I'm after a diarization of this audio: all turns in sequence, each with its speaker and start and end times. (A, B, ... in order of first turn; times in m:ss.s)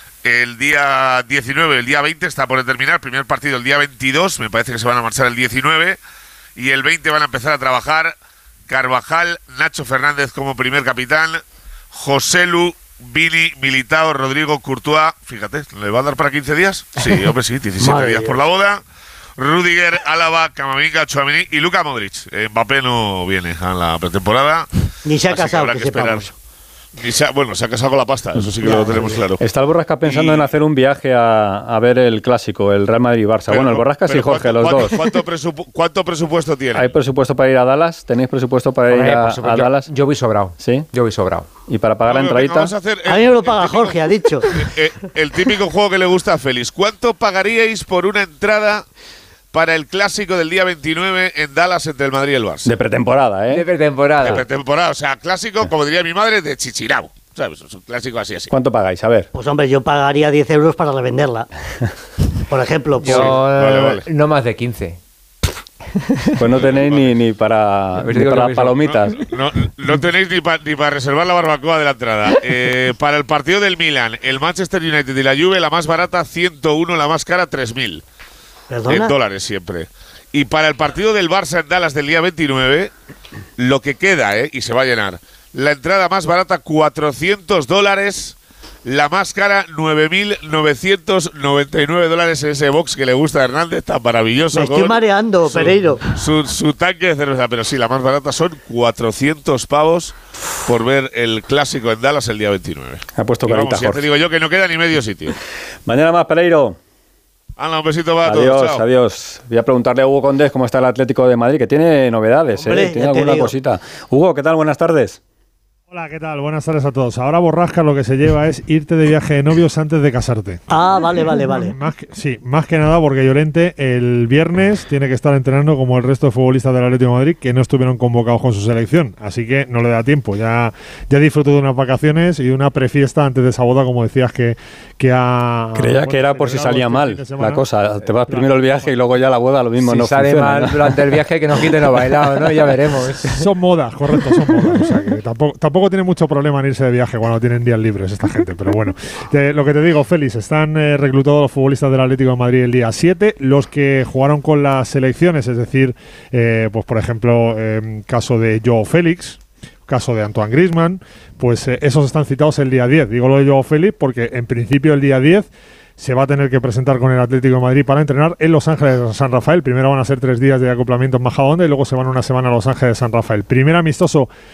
0:00.2-0:06.0 A
0:06.6-0:08.1 A
0:08.7-0:18.8 A
0:17.8-0:18.4 B
0:19.4-0:24.7 A
0:25.0-0:26.3 B
0:25.2-0:26.3 A
0:27.0-0:29.4 A
0:28.6-0:29.2 B
0:29.4-0:35.0 C
0:30.0-0:30.5 A
0:33.5-0:36.9 A
0:36.7-0:39.9 C
0:38.9-0:41.5 D
0:40.6-0:40.9 C
0:41.7-0:42.7 C
0:42.0-0:48.8 A
0:43.0-0:44.6 B
0:49.5-0:52.7 A
0:52.6-0:53.6 C
0:53.5-0:54.4 D
0:54.2-0:58.5 A
0:58.5-0:59.3 C
0:59.3-1:01.5 B
1:02.5-1:03.4 B
1:03.0-1:05.0 D
1:03.1-1:04.0 C
1:03.2-1:03.9 A
1:06.4-1:09.2 C
1:06.5-1:07.1 A
1:08.0-1:08.8 D
1:08.8-1:18.0 A
1:18.7-1:19.2 B
1:18.8-1:22.9 A
1:23.6-1:45.3 A
1:34.5-1:36.1 B
1:43.1-1:44.0 C
1:45.8-1:46.8 C
1:47.6-1:48.8 A
1:48.2-1:55.2 C
1:52.6-1:53.5 B
1:55.9-2:00.6 E
2:00.7-2:01.8 B
2:01.4-2:17.7 E
2:15.7-2:21.2 C
2:18.2-2:18.9 E
2:19.8-2:23.4 D
2:23.2-2:54.3 E